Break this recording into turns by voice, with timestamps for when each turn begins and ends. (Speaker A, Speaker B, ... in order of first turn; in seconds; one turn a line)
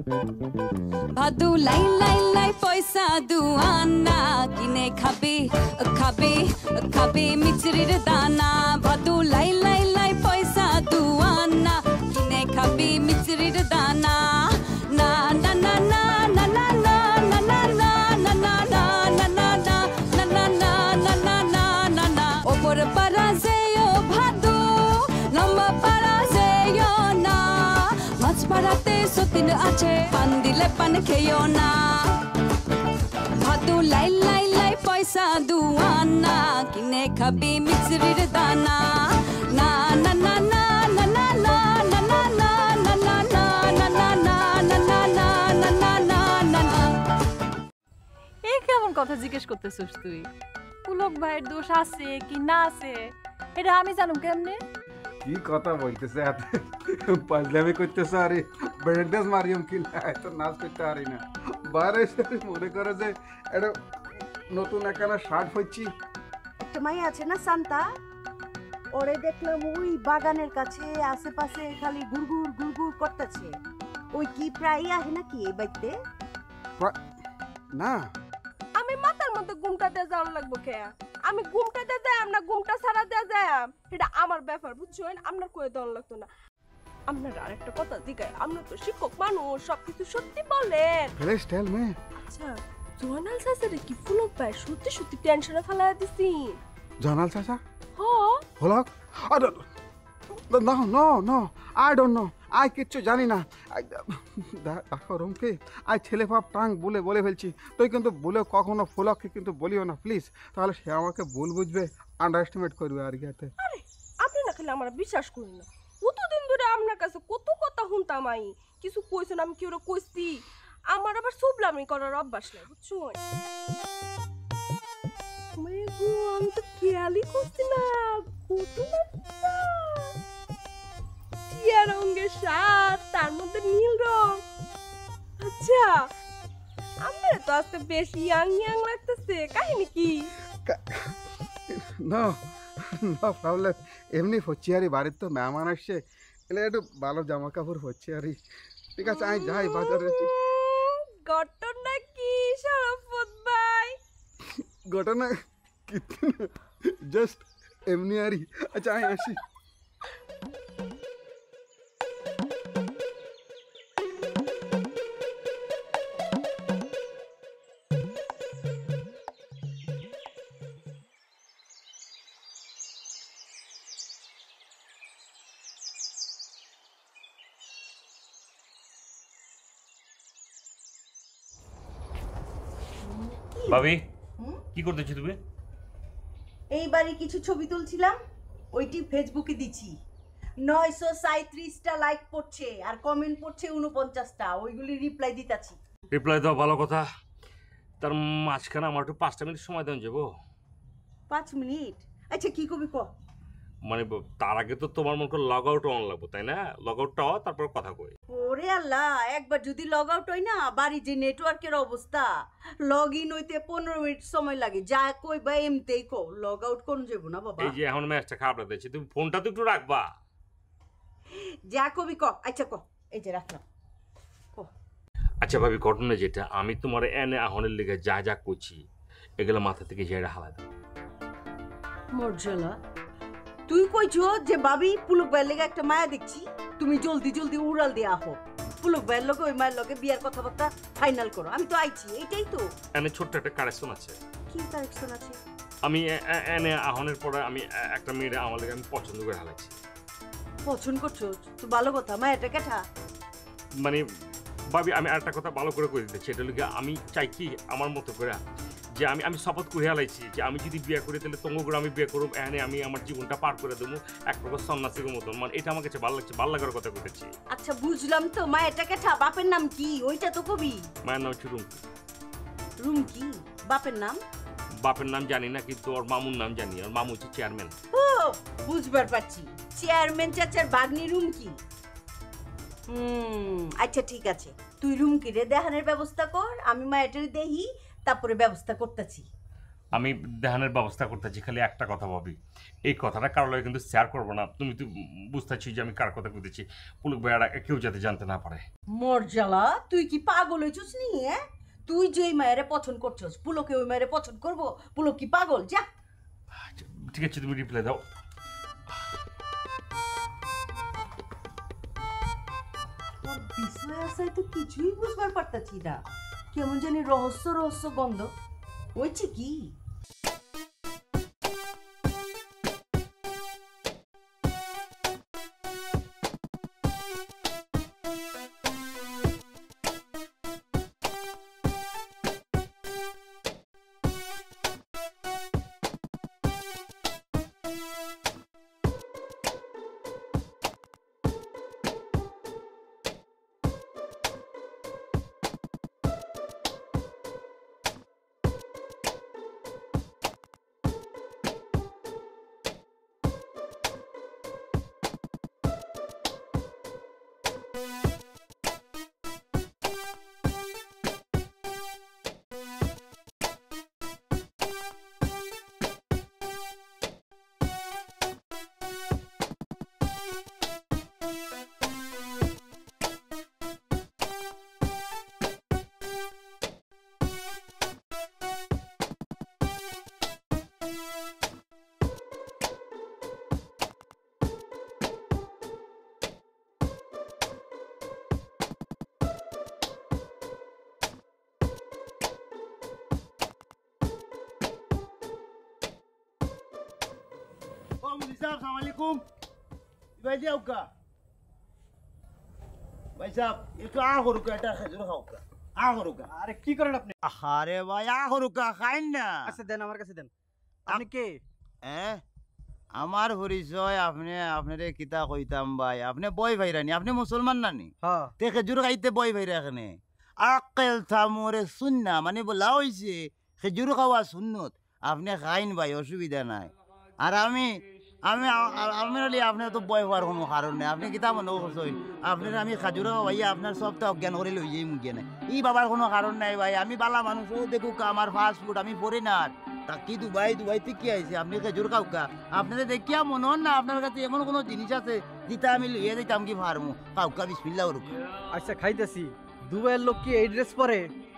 Speaker A: 1.2-32.2
Speaker A: 33.4-46.9
Speaker B: 48.4-50.3
Speaker B: 50.9-54.6
Speaker C: 55.2-63.8
Speaker C: 64.5-65.9
Speaker D: 66.6-67.8
Speaker D: 68.9-73.5
Speaker D: 74.1-75.9
Speaker C: 77.7-78.0
Speaker E: 78.8-86.3
Speaker E: 87.1-91.1
Speaker C: 91.2-91.9
Speaker E: 92.2-96.6
Speaker C: 97.0-97.6
Speaker E: 98.0-98.4
Speaker C: 98.6-99.6
Speaker C: 100.5-113.5
Speaker E: 113.6-120.4
Speaker E: 120.9-123.2
Speaker E: 125.6-130.2
Speaker E: 131.5-134.4
Speaker E: 135.4-136.0
Speaker E: 137.0-140.3
Speaker C: 140.7-141.1
Speaker C: 141.7-142.4
Speaker C: 142.9-148.4
Speaker C: 149.0-150.4
Speaker E: 149.1-154.0
Speaker C: 154.9-155.3
Speaker C: 155.9-156.5
Speaker C: 157.1-159.4
Speaker D: 183.0-184.6
Speaker F: 183.7-184.1
Speaker F: 184.8-185.4
Speaker D: 186.7-188.2
Speaker D: 188.7-190.0
Speaker D: 190.6-195.8
Speaker F: 196.1-197.1
Speaker F: 198.0-200.3
Speaker D: 201.3-203.1
Speaker F: 203.9-208.2
Speaker D: 208.3-212.3
Speaker D: 212.8-217.8
Speaker F: 217.6-220.1
Speaker D: 221.3-223.6
Speaker F: 225.4-228.8
Speaker F: 229.4-230.7
Speaker D: 232.1-232.8
Speaker D: 233.7-242.7
Speaker F: 242.9-244.2
Speaker D: 244.5-245.4
Speaker F: 245.8-249.8
Speaker D: 250.7-252.8
Speaker F: 254.7-258.4
Speaker F: 259.0-267.3
Speaker D: 267.5-270.9
Speaker F: 271.1-271.8
Speaker D: 272.8-274.2
Speaker F: 274.8-277.7
Speaker D: 277.9-281.6
Speaker D: 282.9-289.3
Speaker F: 289.9-292.4
Speaker F: 292.9-298.6
Speaker D: 298.9-305.9
Speaker F: 306.6-308.0
Speaker D: 313.2-318.3
Speaker D: 319.0-319.7
Speaker G: 398.0-399.2
Speaker G: 400.2-400.9
Speaker G: 403.2-406.3
Speaker H: 406.3-407.1
Speaker G: 407.2-409.5
Speaker H: 409.5-410.3
Speaker H: 410.9-411.4
Speaker G: 411.8-412.2
Speaker G: 412.9-448.1
Speaker H: 418.0-418.3
Speaker H: 448.5-451.1